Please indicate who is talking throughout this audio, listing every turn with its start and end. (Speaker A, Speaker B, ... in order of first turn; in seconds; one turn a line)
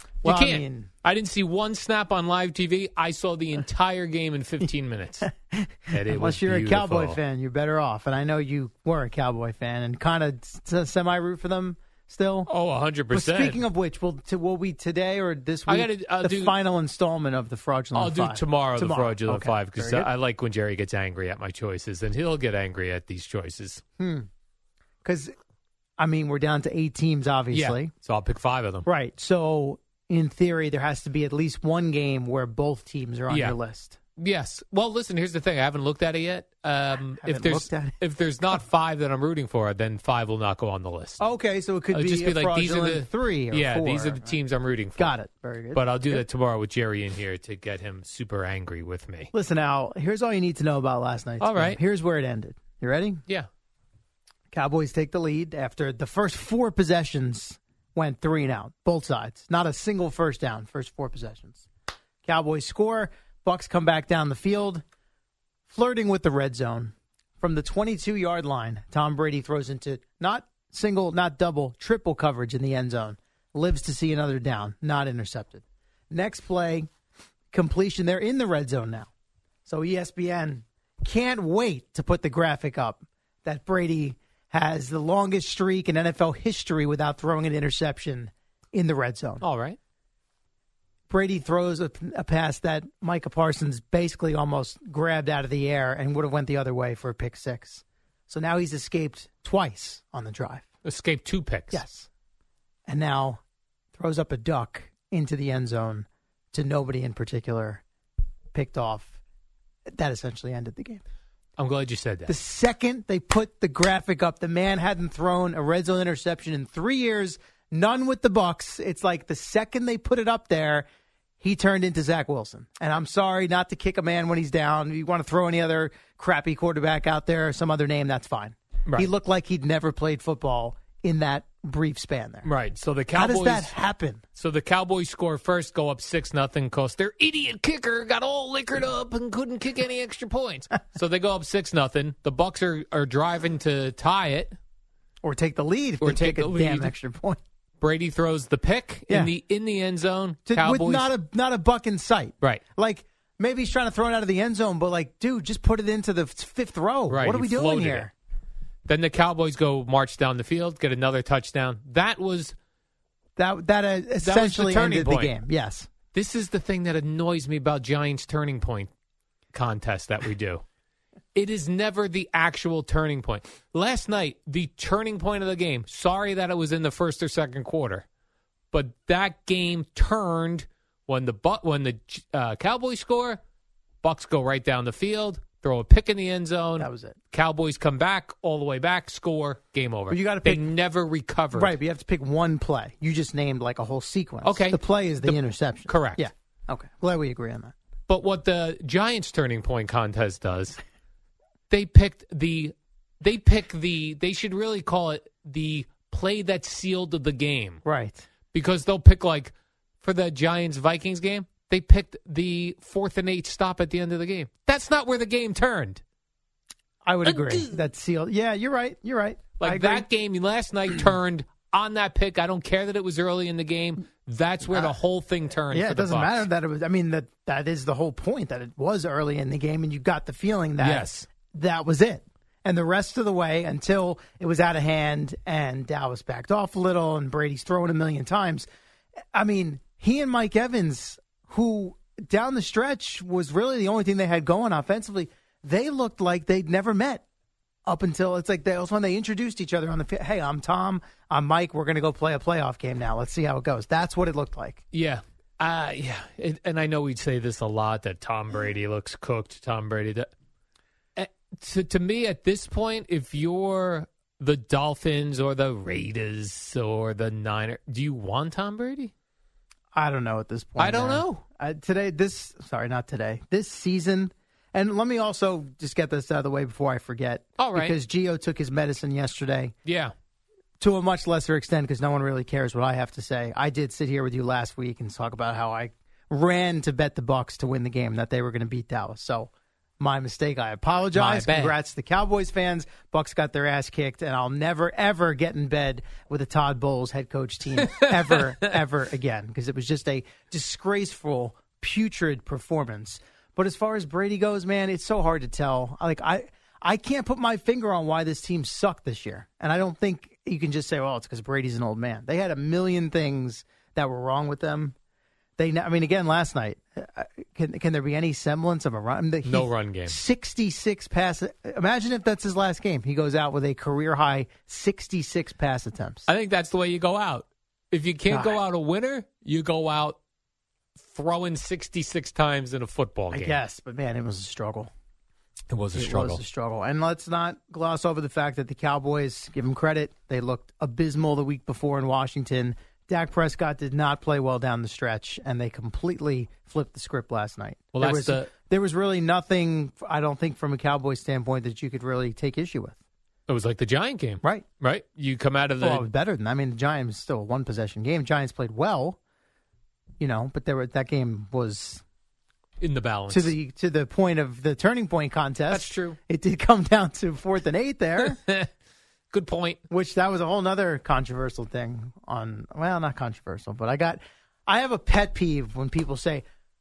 Speaker A: 0.2-0.9
Speaker B: 0.2-5.3
Speaker A: 5.5-12.5
Speaker B: 5.9-7.2
Speaker B: 12.5-13.6
Speaker A: 13.1-20.1
Speaker B: 15.7-16.6
Speaker B: 17.9-23.8
Speaker A: 24.0-24.3
Speaker A: 25.0-25.3
Speaker A: 26.0-27.9
Speaker B: 27.5-28.9
Speaker A: 28.9-34.0
Speaker B: 33.3-33.6
Speaker B: 34.2-41.2
Speaker A: 37.2-38.0
Speaker A: 41.2-44.4
Speaker B: 41.9-45.1
Speaker A: 45.0-46.2
Speaker B: 45.7-49.3
Speaker A: 49.3-53.2
Speaker B: 51.4-51.8
Speaker A: 54.5-61.7
Speaker A: 62.3-64.8
Speaker A: 65.7-76.9
Speaker A: 77.5-79.1
Speaker A: 79.7-89.4
Speaker B: 89.4-89.8
Speaker A: 91.1-100.7
Speaker B: 100.8-101.8
Speaker A: 101.7-102.1
Speaker A: 102.9-103.4
Speaker A: 104.0-107.8
Speaker A: 108.5-109.2
Speaker A: 109.9-111.0
Speaker B: 111.6-112.4
Speaker A: 112.3-120.9
Speaker A: 121.4-132.5
Speaker B: 132.4-133.8
Speaker A: 133.1-134.2
Speaker B: 134.3-144.6
Speaker A: 145.2-147.4
Speaker B: 146.0-146.9
Speaker B: 147.8-151.1
Speaker A: 149.1-149.3
Speaker A: 150.5-158.1
Speaker B: 157.1-158.1
Speaker B: 158.9-162.6
Speaker A: 163.4-165.9
Speaker B: 164.2-165.3
Speaker B: 166.1-168.9
Speaker B: 169.5-170.6
Speaker B: 171.3-178.1
Speaker B: 178.7-183.4
Speaker B: 184.0-191.8
Speaker A: 186.8-187.2
Speaker A: 190.1-190.7
Speaker A: 191.5-197.7
Speaker B: 194.4-196.2
Speaker B: 198.1-200.8
Speaker B: 201.7-207.8
Speaker A: 207.8-208.3
Speaker B: 208.5-216.0
Speaker A: 217.1-220.1
Speaker B: 217.3-217.7
Speaker B: 219.6-226.5
Speaker A: 224.7-225.0
Speaker A: 225.6-238.7
Speaker B: 230.8-231.3
Speaker A: 239.3-247.2
Speaker A: 247.9-254.8
Speaker B: 254.9-260.3
Speaker B: 261.2-269.1
Speaker A: 269.9-279.7
Speaker B: 270.8-271.4
Speaker B: 277.6-278.0
Speaker B: 279.9-280.1
Speaker A: 280.8-314.9
Speaker B: 291.1-291.8
Speaker B: 298.0-298.4
Speaker A: 315.6-326.3
Speaker B: 319.4-320.2
Speaker B: 326.3-330.2
Speaker A: 328.3-328.6
Speaker B: 331.0-333.6
Speaker A: 333.3-334.9
Speaker B: 335.7-336.4
Speaker A: 335.9-353.0
Speaker B: 347.9-348.5
Speaker B: 353.5-356.1
Speaker A: 355.8-359.2
Speaker A: 360.2-362.0
Speaker B: 362.8-363.5
Speaker A: 363.3-368.4
Speaker B: 365.7-366.2
Speaker B: 368.2-368.7
Speaker B: 369.3-369.8
Speaker A: 369.9-376.4